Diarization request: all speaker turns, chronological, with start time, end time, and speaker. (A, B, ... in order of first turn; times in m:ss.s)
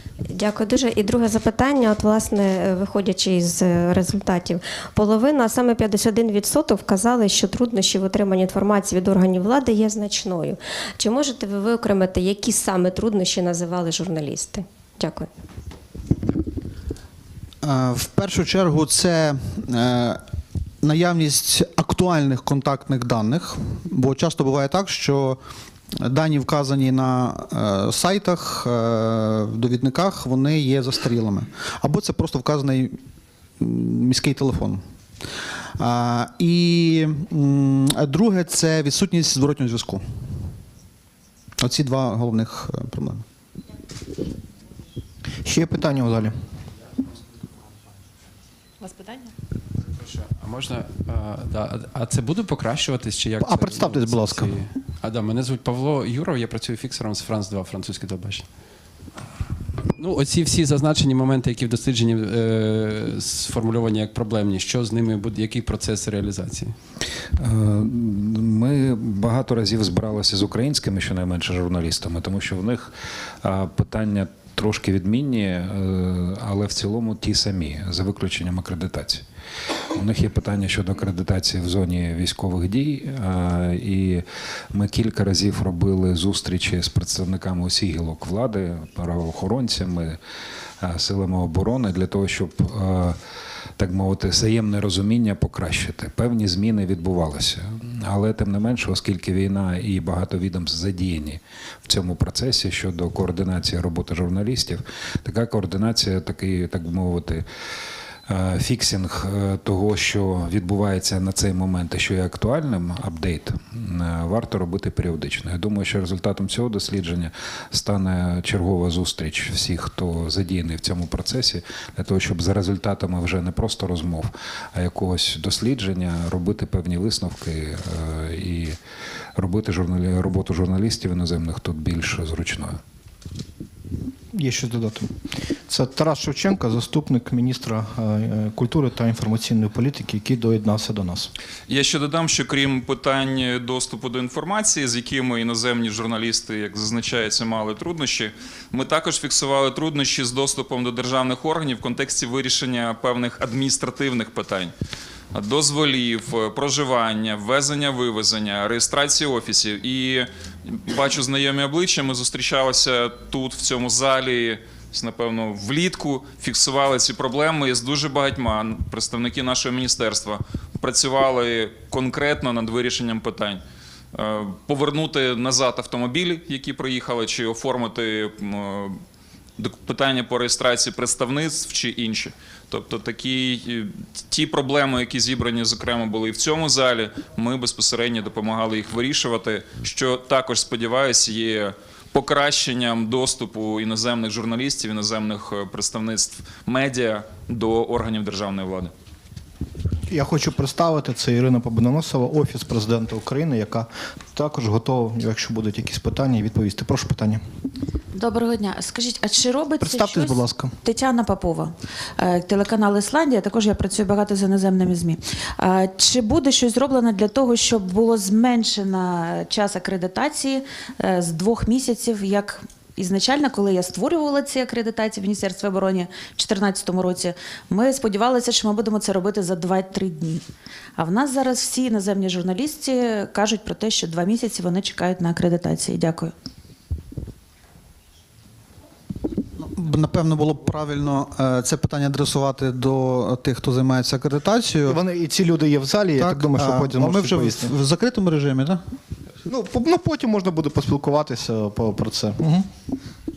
0:00.3-0:15.3 A
0:17.6-0:20.2 B
0:20.8-0:25.4 B
0:26.0-0:33.0 B
0:33.6-0:34.8 B
0:35.8-0:40.0 B
0:41.6-0:43.2 B
0:45.4-0:46.3 C
0:49.9-0:58.5 D
0:53.4-0:54.6 C
1:00.0-1:06.7 D
1:07.4-1:19.2 E
1:19.9-1:30.2 E
1:30.8-1:33.2 E
1:33.8-1:47.4 E
1:48.3-2:08.8 E
2:09.4-2:12.8 E
2:14.3-2:15.1 C
2:15.7-2:21.3 C
2:21.7-2:34.7 F
2:35.3-2:53.6 F
2:54.1-2:59.0 F
2:59.6-3:18.9 F
3:20.1-3:27.4 C
3:28.1-3:50.4 G
3:29.8-3:30.7 C
3:51.0-3:56.3 G
3:59.6-4:05.0 B
4:04.9-4:07.7 C
4:06.2-4:08.8 B
4:09.4-4:12.7 C